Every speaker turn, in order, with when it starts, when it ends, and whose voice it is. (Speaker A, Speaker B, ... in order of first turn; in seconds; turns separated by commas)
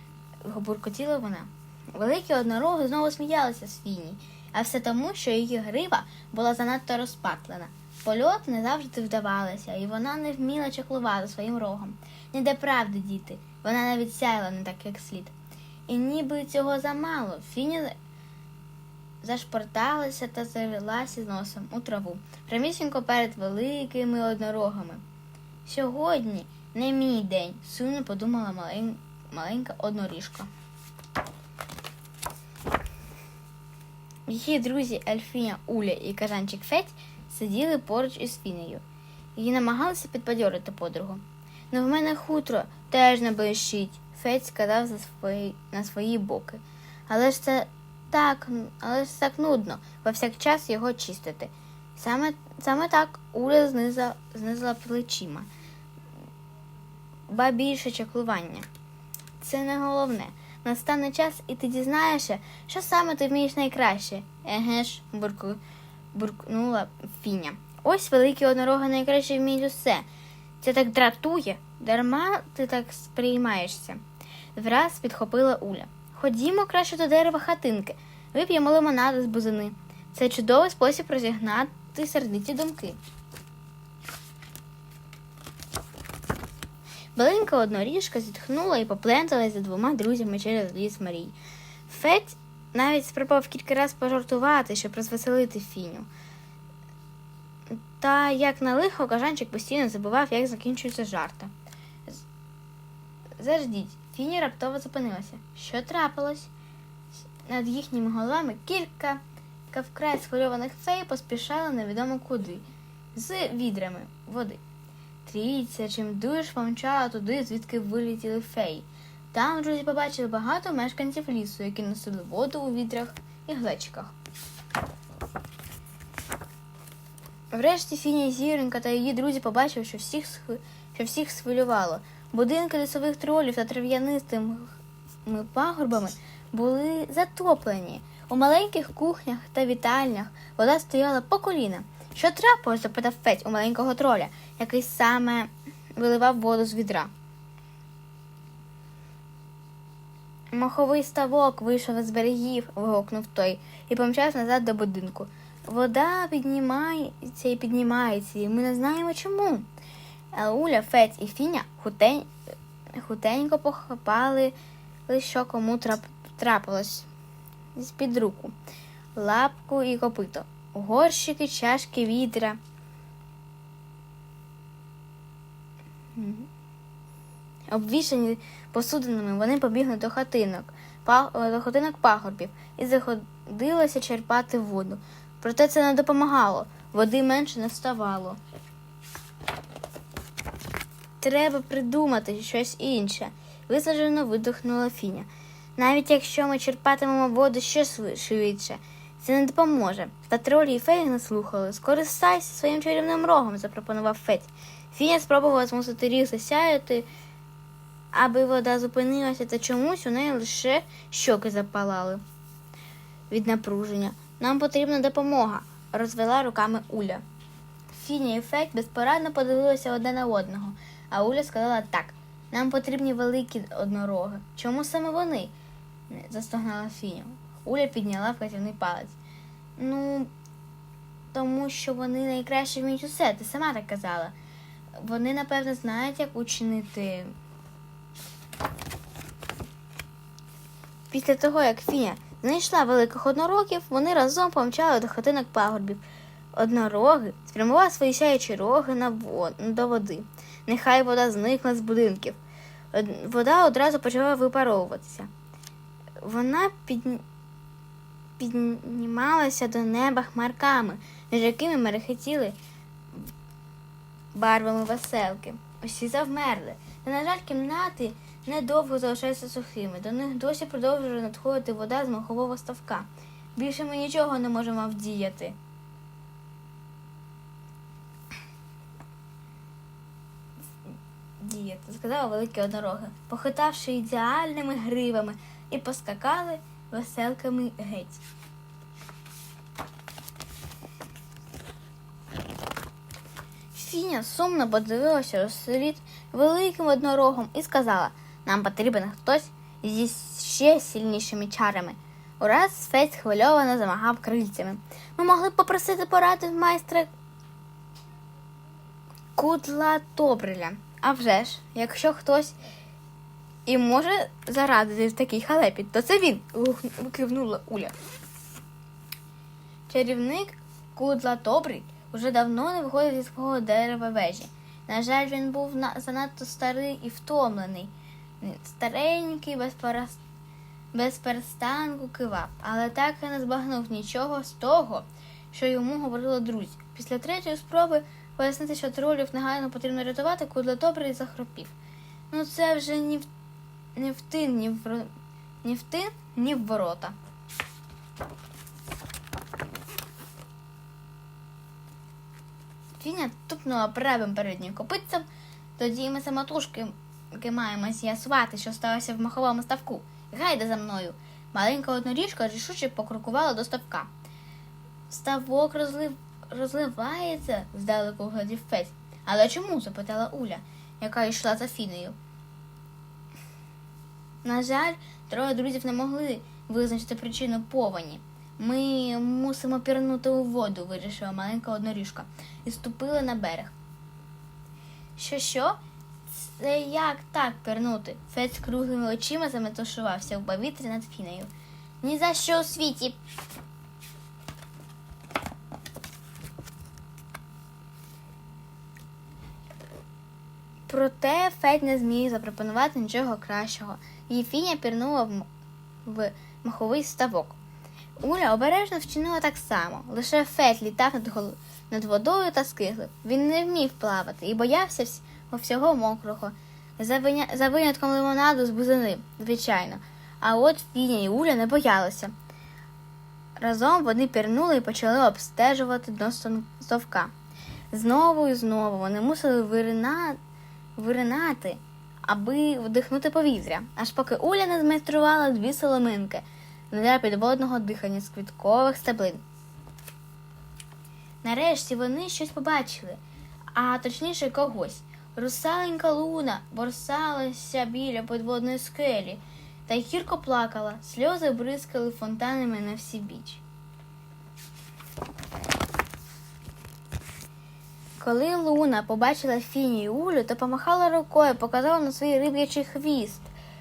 Speaker A: 0.4-15.3, Speaker A: 15.9-17.9, Speaker A: 19.2-25.0, Speaker A: 25.6-30.5, Speaker A: 34.3-38.8, Speaker A: 39.4-55.5, Speaker A: 57.3-58.7, Speaker A: 59.4-65.6, Speaker A: 66.1-70.0, Speaker A: 70.6-74.0, Speaker A: 74.5-83.0, Speaker A: 87.1-91.3, Speaker A: 91.9-96.1, Speaker A: 98.0-101.5, Speaker A: 103.4-106.5, Speaker A: 107.5-114.6, Speaker A: 115.2-124.1, Speaker A: 127.5-147.1, Speaker A: 150.5-159.7, Speaker A: 160.3-162.3, Speaker A: 162.9-164.5, Speaker A: 165.1-167.1, Speaker A: 167.8-168.5, Speaker A: 169.2-172.6, Speaker A: 176.1-176.5, Speaker A: 177.7-188.4, Speaker A: 191.2-207.1, Speaker A: 208.1-212.2, Speaker A: 213.3-217.2, Speaker A: 217.9-225.5, Speaker A: 226.1-229.2, Speaker A: 229.8-230.3, Speaker A: 231.3-234.3, Speaker A: 235.0-237.3, Speaker A: 241.1-246.0, Speaker A: 246.5-252.4, Speaker A: 252.9-255.3, Speaker A: 256.2-257.2, Speaker A: 258.4-262.6, Speaker A: 264.3-275.6, Speaker A: 281.4-288.2, Speaker A: 293.7-307.1, Speaker A: 309.4-312.6, Speaker A: 313.6-317.9, Speaker A: 319.9-330.2, Speaker A: 330.9-341.7, Speaker A: 342.3-343.2, Speaker A: 343.9-345.1, Speaker A: 345.6-347.1, Speaker A: 353.0-355.2, Speaker A: 355.8-364.1, Speaker A: 365.1-372.1, Speaker A: 374.4-383.7, Speaker A: 385.2-385.8, Speaker A: 386.3-391.5, Speaker A: 392.0-393.2, Speaker A: 400.9-405.4, Speaker A: 406.0-407.6, Speaker A: 408.2-422.3, Speaker A: 423.6-427.3, Speaker A: 427.9-430.4, Speaker A: 430.9-439.4, Speaker A: 441.4-443.2, Speaker A: 443.7-453.6, Speaker A: 458.2-463.5